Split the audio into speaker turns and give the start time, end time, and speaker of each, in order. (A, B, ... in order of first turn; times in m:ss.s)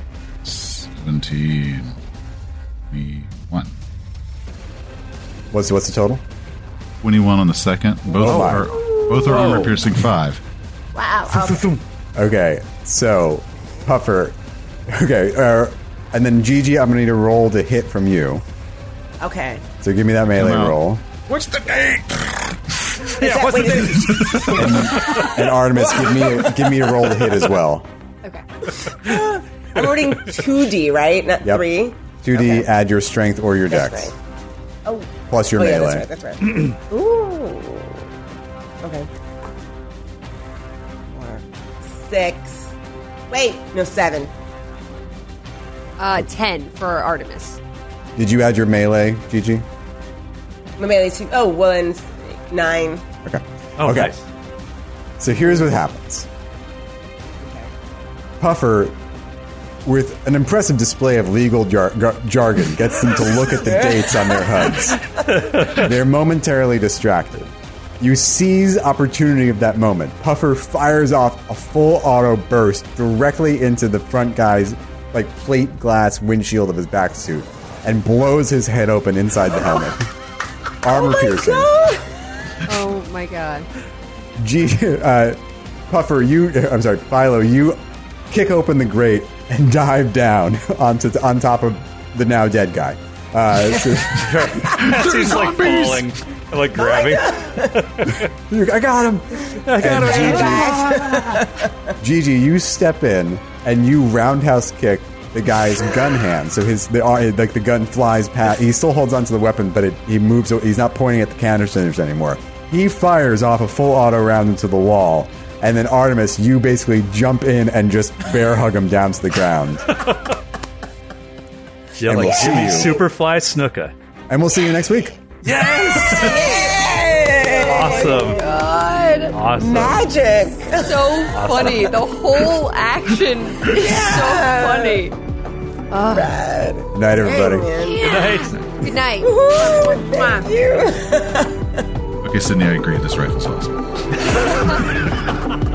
0:00.4-0:02.0 A
0:02.9-0:03.8 A
0:05.5-0:06.2 B
0:07.0-0:10.4 A
0:08.2-0:08.8 B
0:08.4-0:09.8 C
0:11.0-0:11.8 D
0:12.2-0:14.4 B
0:14.9-0:18.4 B
0:19.2-0:19.6 D
0:19.8-0:21.0 B
0:20.3-0:25.0 A
0:23.0-0:26.7 D
0:23.1-0:25.4 C
0:24.5-0:27.9 B
0:28.8-0:32.7 D
0:32.2-0:34.1 B
0:33.7-0:34.2 D
0:34.8-0:38.1 D
0:35.3-0:36.1 B
0:38.8-0:39.1 D
0:41.1-0:42.7 D
0:43.3-0:44.3 D
0:46.0-0:47.6 E
0:48.2-0:49.7 B
0:50.8-0:53.0 D
0:53.2-0:54.1 B
0:53.8-0:54.2 C
0:55.2-0:56.3 B
0:57.4-0:57.7 D
0:58.4-0:59.0 B
0:59.8-1:20.1 B
1:03.5-1:04.5 D
1:20.8-1:21.7 B
1:20.9-1:22.6 D
1:22.6-1:23.7 E
1:24.4-1:27.8 B
1:28.3-1:34.6 B
1:34.1-1:38.3 C
1:34.6-1:36.1 A
1:36.7-1:37.8 D
1:38.5-1:41.5 B
1:39.5-1:41.0 C
1:39.9-1:41.7 D
1:42.0-2:00.0 B
2:00.0-2:00.3 C
2:02.0-2:03.9 C
2:02.0-2:02.9 B
2:04.3-2:05.2 B
2:05.4-2:06.7 C
2:06.1-2:08.6 D
2:07.5-2:08.4 C
2:07.8-2:09.4 E
2:09.3-2:10.1 C
2:09.6-2:11.6 D
2:10.8-2:15.2 E
2:11.3-2:11.8 C
2:13.7-2:15.0 D
2:15.9-2:16.4 E
2:16.1-2:18.0 D
2:16.9-2:17.8 B
2:17.8-2:20.5 E
2:18.0-2:18.6 C
2:19.2-2:21.8 D
2:22.2-2:24.5 A